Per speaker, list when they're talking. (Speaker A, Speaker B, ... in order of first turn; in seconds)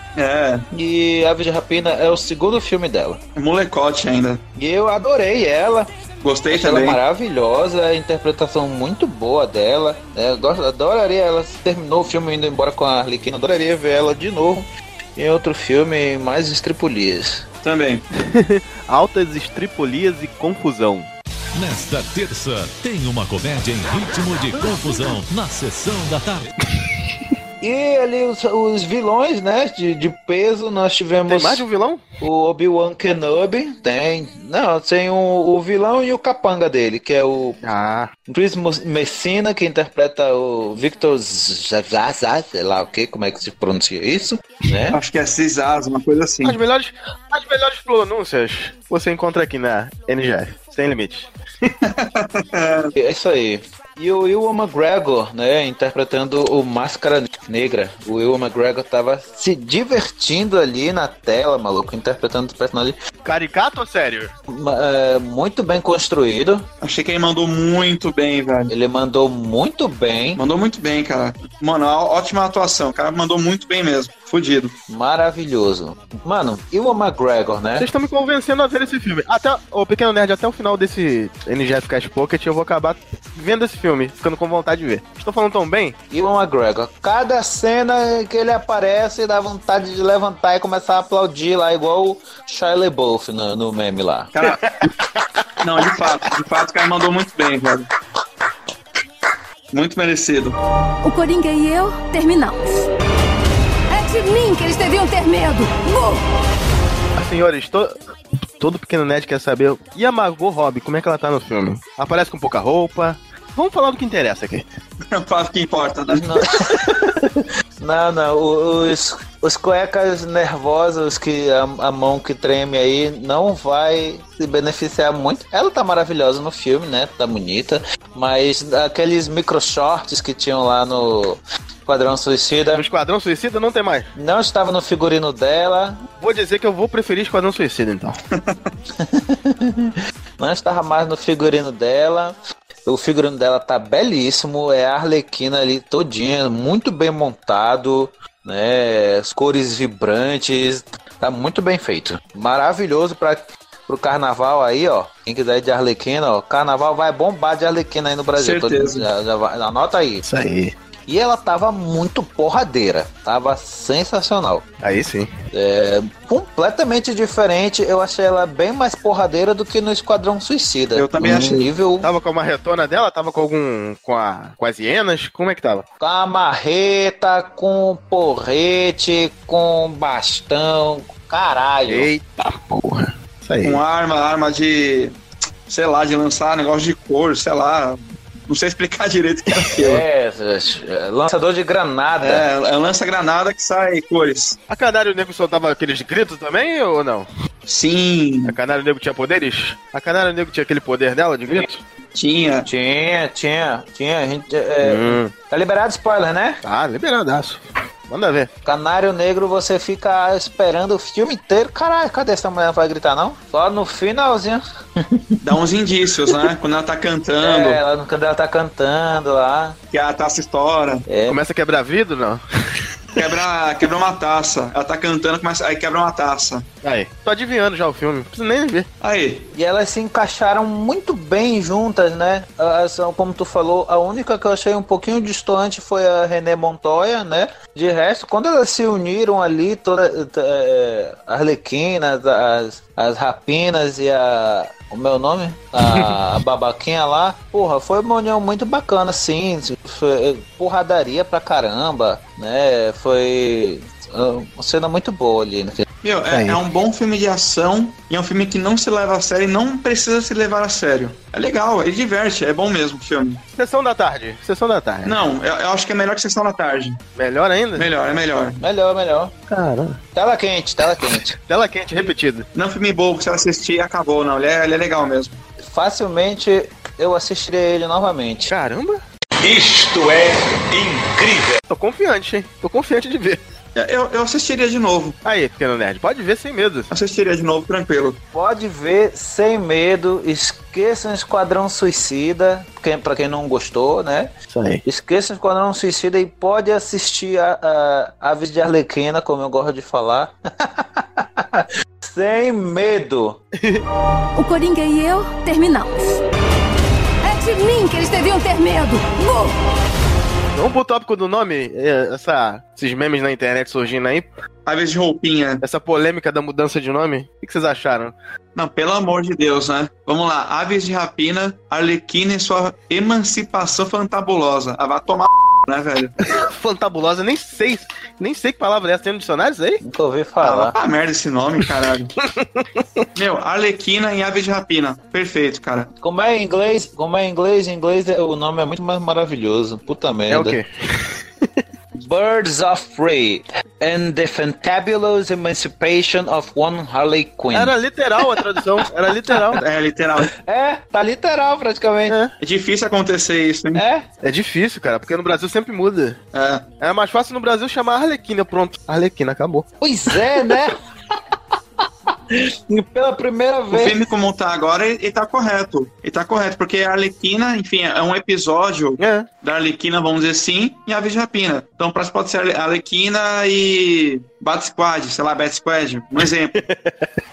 Speaker A: 0.1-0.6, 3.4-4.4, 6.2-7.0, 17.6-18.0, 44.9-46.6, 51.9-52.9, 66.8-68.7, 70.4-74.8, 95.6-97.9, 99.7-100.6, 115.1-116.2, 138.3-138.7, 158.3-159.1, 170.9-171.6, 183.6-185.1, 185.7-190.0, 192.2-194.6, 197.7-198.5, 202.1-202.7, 215.4-217.8, 219.9-221.0, 223.2-226.6, 229.0-229.5, 256.0-263.4, 265.0-267.0, 267.8-268.6, 272.5-275.4, 283.8-285.1, 286.9-288.2, 314.6-315.6, 318.6-326.1, 330.4-332.1, 333.1-335.9, 349.6-350.3, 352.4-353.8, 356.3-356.6, 363.7-376.5
Speaker B: 0.7-3.2, 4.6-5.9, 6.5-17.4, 27.6-31.6, 32.2-37.6, 38.3-45.0, 53.0-63.0, 64.5-66.7, 68.7-70.4, 74.9-77.9, 86.1-94.3, 116.1-132.8, 134.2-136.0, 139.0-160.2, 161.1-164.7, 165.5-172.1, 176.0-182.1, 189.6-192.4, 202.7-206.6, 208.6-215.2, 217.4-219.8, 221.1-221.4, 229.5-255.8, 268.6-269.3, 270.1-271.3, 275.6-278.5, 279.4-281.5, 288.3-294.3, 294.8-303.4, 329.8-330.7, 336.0-340.6, 342.0-348.3, 350.4-352.1, 353.7-354.0, 359.8-360.8, 362.3-364.0
Speaker C: 18.2-21.1, 31.3-32.0, 37.6-38.1, 46.4-51.7, 63.2-64.3, 77.8-86.0, 94.4-94.7, 107.2-107.9, 108.6-114.6, 132.7-134.1, 136.2-138.2, 160.2-160.7, 164.8-165.3, 172.0-175.8, 181.8-183.8, 194.7-197.3, 198.5-201.8, 204.8-205.3, 206.6-208.5, 221.3-222.4, 226.8-228.9, 256.3-256.6, 263.6-265.2, 267.1-267.9, 269.5-270.0, 271.0-272.4, 278.5-279.0, 281.7-283.4, 285.2-286.9, 294.5-294.8, 310.5-314.2, 315.6-318.1, 326.2-329.8, 332.2-333.0, 340.3-341.6, 347.5-349.6, 354.2-356.2, 356.8-359.6, 369.0-369.3, 376.5-377.1
Speaker D: 21.5-26.5
Speaker E: 101.0-102.9, 103.9-106.2, 304.4-306.2, 307.2-309.5